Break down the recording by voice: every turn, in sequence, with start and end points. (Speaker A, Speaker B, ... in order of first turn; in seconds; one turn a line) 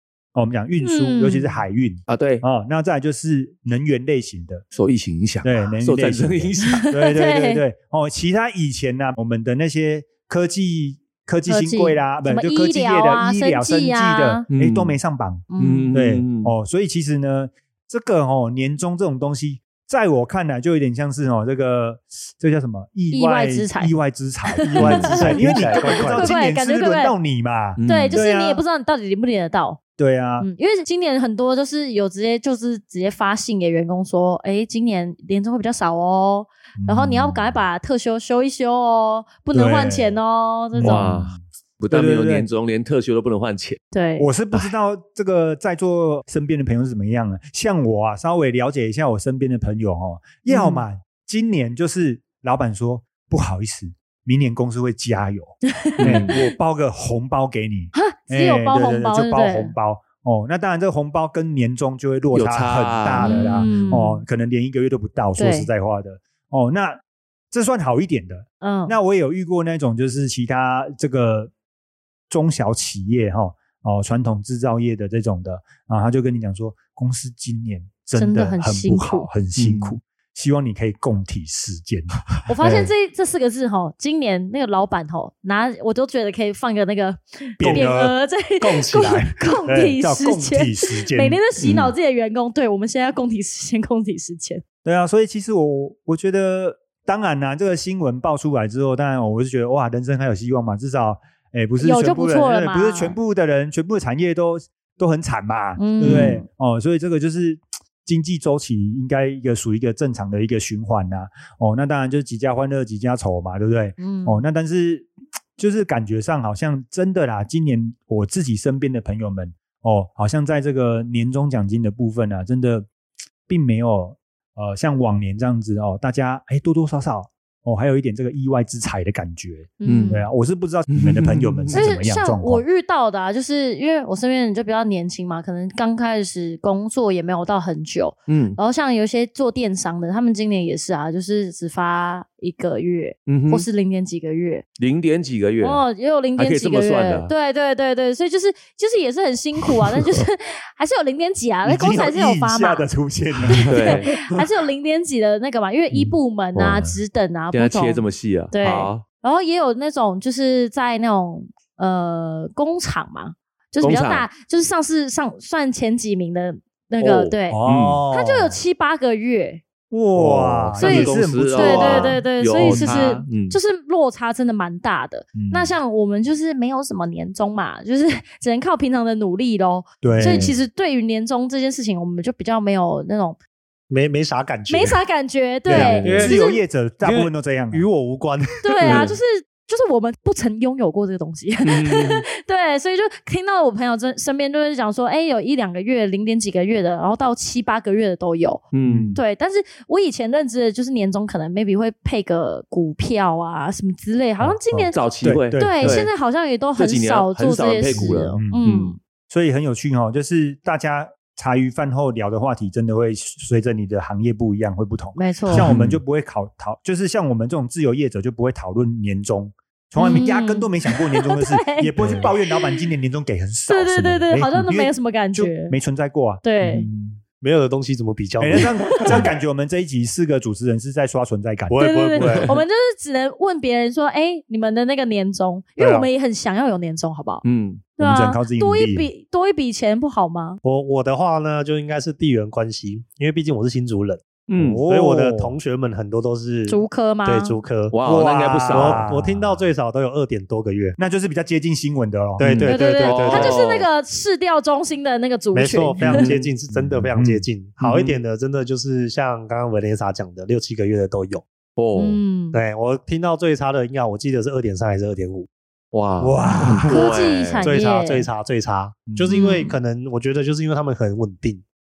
Speaker A: 0.3-4.6
Speaker B: 0.8-1.6
Speaker C: 2.1-2.4
Speaker C: 4.7-6.9
Speaker A: 5.4-28.6
Speaker B: 6.7-7.6
Speaker B: 11.5-14.5
Speaker C: 14.5-15.0
Speaker B: 15.5-15.9
Speaker C: 15.6-16.5
Speaker B: 23.1-23.9
Speaker B: 24.6-27.1
Speaker C: 24.8-25.2
Speaker D: 24.9-26.4
Speaker C: 27.8-28.2
Speaker B: 27.9-29.8
Speaker A: 30.0-30.5
Speaker B: 30.4-41.1
Speaker A: 36.8-37.6
Speaker A: 39.5-40.1
Speaker A: 40.7-42.5
Speaker C: 40.8-43.8
Speaker B: 43.9-44.3
Speaker A: 44.2-67.0
Speaker B: 50.5-50.9
Speaker B: 55.7-56.4
Speaker C: 56.0-56.4
Speaker B: 57.9-59.7
Speaker C: 62.3-63.9
Speaker B: 63.2-64.2
Speaker B: 65.4-65.7
Speaker A: 67.5-71.5
Speaker B: 68.6-69.0
Speaker A: 72.3-82.9
Speaker B: 78.2-79.3
Speaker C: 79.6-80.0
Speaker B: 82.5-94.6
Speaker A: 87.6-88.2
Speaker D: 87.6-87.9
Speaker D: 88.6-89.5
Speaker A: 89.7-91.8
Speaker A: 94.8-122.9
Speaker B: 101.8-103.2
Speaker B: 105.8-106.4
Speaker C: 106.0-106.4
Speaker B: 114.0-114.4
Speaker A: 123.5-132.6
Speaker B: 129.8-130.3
Speaker C: 129.8-130.2
Speaker C: 130.9-131.9
Speaker B: 131.7-144.6
Speaker C: 138.3-138.6
Speaker C: 143.3-143.7
Speaker C: 144.8-145.8
Speaker B: 145.6-152.9
Speaker C: 146.4-147.3
Speaker A: 151.7-154.4
Speaker B: 153.5-169.6
Speaker C: 153.7-154.1
Speaker C: 155.9-157.0
Speaker C: 157.5-159.0
Speaker C: 163.8-164.3
Speaker C: 167.0-168.0
Speaker A: 167.5-168.6
Speaker A: 169.9-173.1
Speaker C: 170.2-173.6
Speaker B: 170.8-183.4
Speaker A: 175.3-175.7
Speaker A: 180.0-180.6
Speaker C: 180.2-180.5
Speaker D: 183.9-185.0
Speaker B: 184.7-186.6
Speaker D: 185.7-186.4
Speaker A: 185.7-187.9
Speaker C: 185.7-186.2
Speaker D: 187.0-189.1
Speaker B: 188.6-198.6
Speaker C: 188.8-189.1
Speaker C: 191.7-192.2
Speaker C: 198.7-199.2
Speaker A: 198.8-199.2
Speaker B: 199.2-209.0
Speaker A: 204.4-206.1
Speaker C: 204.9-206.1
Speaker C: 206.8-208.9
Speaker A: 207.9-208.7
Speaker A: 209.3-226.9
Speaker B: 215.2-215.7
Speaker C: 215.5-216.0
Speaker B: 220.0-222.8
Speaker B: 223.7-225.8
Speaker B: 226.4-226.9
Speaker D: 226.8-229.3
Speaker A: 228.4-231.9
Speaker D: 231.7-232.5
Speaker B: 231.8-237.4
Speaker D: 235.8-236.1
Speaker C: 237.4-237.9
Speaker A: 238.0-239.1
Speaker B: 238.0-240.6
Speaker D: 240.6-247.9
Speaker C: 244.5-244.8
Speaker A: 244.6-245.5
Speaker B: 246.7-247.6
Speaker C: 247.9-249.1
Speaker A: 248.0-249.6
Speaker D: 248.7-251.0
Speaker A: 251.0-252.8
Speaker D: 252.4-253.6
Speaker C: 252.4-253.9
Speaker B: 252.6-256.2
Speaker D: 255.5-261.4
Speaker C: 256.0-256.5
Speaker A: 257.1-257.4
Speaker C: 257.8-258.2
Speaker C: 261.8-262.2
Speaker B: 262.0-262.6
Speaker D: 262.5-265.5
Speaker C: 265.9-267.7
Speaker A: 266.2-266.9
Speaker B: 266.9-268.3
Speaker D: 267.6-271.6
Speaker C: 269.1-269.5
Speaker B: 269.3-269.8